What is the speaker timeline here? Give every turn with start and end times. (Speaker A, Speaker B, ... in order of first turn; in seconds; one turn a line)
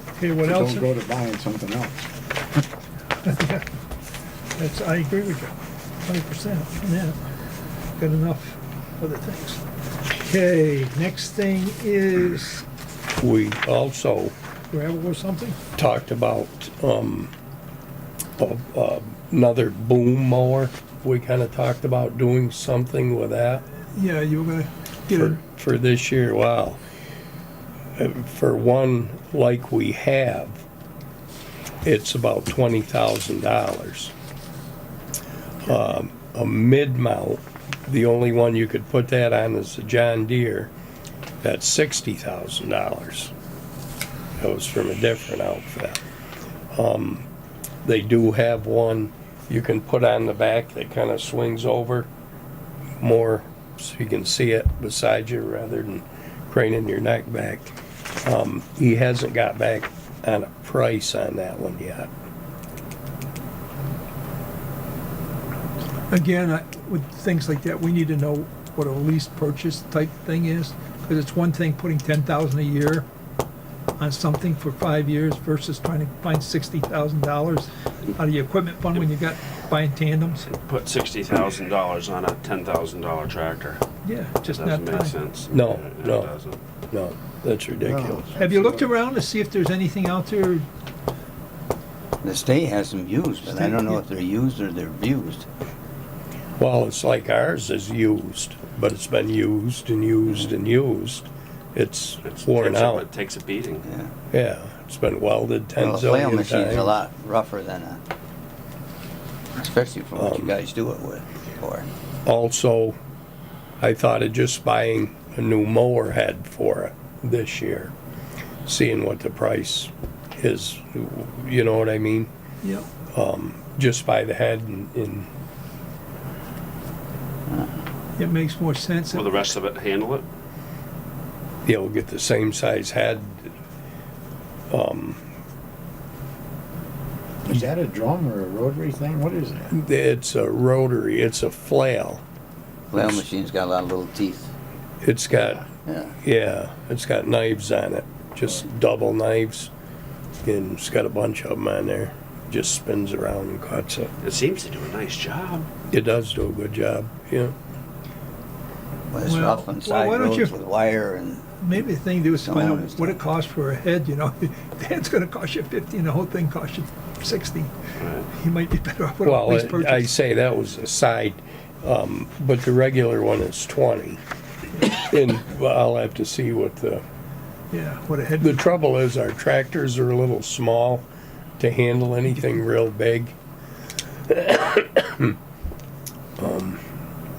Speaker A: 0.2-0.9
Speaker B: 0.4-2.1
Speaker A: 3.2-3.7
Speaker A: 4.6-7.2
Speaker A: 8.0-12.7
Speaker C: 13.2-14.3
Speaker A: 14.7-15.6
Speaker C: 15.8-17.3
Speaker C: 18.4-23.6
Speaker A: 23.9-25.4
Speaker C: 25.1-26.8
Speaker C: 28.0-30.6
Speaker C: 31.8-34.1
Speaker C: 35.6-40.7
Speaker C: 41.4-43.3
Speaker C: 44.4-46.0
Speaker C: 46.7-47.3
Speaker C: 47.8-52.1
Speaker C: 53.0-62.1
Speaker A: 66.1-73.1
Speaker A: 74.0-80.5
Speaker D: 80.4-83.8
Speaker A: 84.0-85.2
Speaker D: 84.4-86.6
Speaker C: 85.5-86.3
Speaker C: 86.9-88.3
Speaker B: 87.8-88.9
Speaker A: 88.3-90.7
Speaker E: 92.2-95.5
Speaker A: 93.5-94.0
Speaker C: 96.6-103.1
Speaker D: 102.2-103.9
Speaker E: 103.9-104.1
Speaker C: 104.3-107.0
Speaker E: 105.8-108.0
Speaker E: 109.6-111.9
Speaker C: 110.2-110.6
Speaker C: 112.2-113.0
Speaker C: 113.8-117.9
Speaker C: 118.7-122.3
Speaker A: 122.6-122.9
Speaker C: 123.1-125.3
Speaker A: 128.2-129.5
Speaker D: 129.1-130.3
Speaker C: 131.7-133.5
Speaker C: 134.7-135.2
Speaker B: 137.4-139.8
Speaker C: 139.7-142.2
Speaker E: 142.9-144.5
Speaker C: 142.9-143.2
Speaker C: 145.0-145.7
Speaker E: 145.9-146.2
Speaker C: 146.2-149.7
Speaker C: 150.4-154.1
Speaker D: 154.2-155.7
Speaker C: 155.9-157.5
Speaker E: 159.1-161.6
Speaker A: 159.2-160.5
Speaker A: 161.5-167.7
Speaker E: 162.4-163.2
Speaker D: 168.0-168.3
Speaker A: 168.3-170.1
Speaker C: 169.2-174.2
Speaker C: 174.8-177.0
Speaker A: 177.7-178.6
Speaker C: 178.4-181.1
Speaker C: 181.6-183.3
Speaker C: 184.3-185.3
Speaker C: 186.4-186.8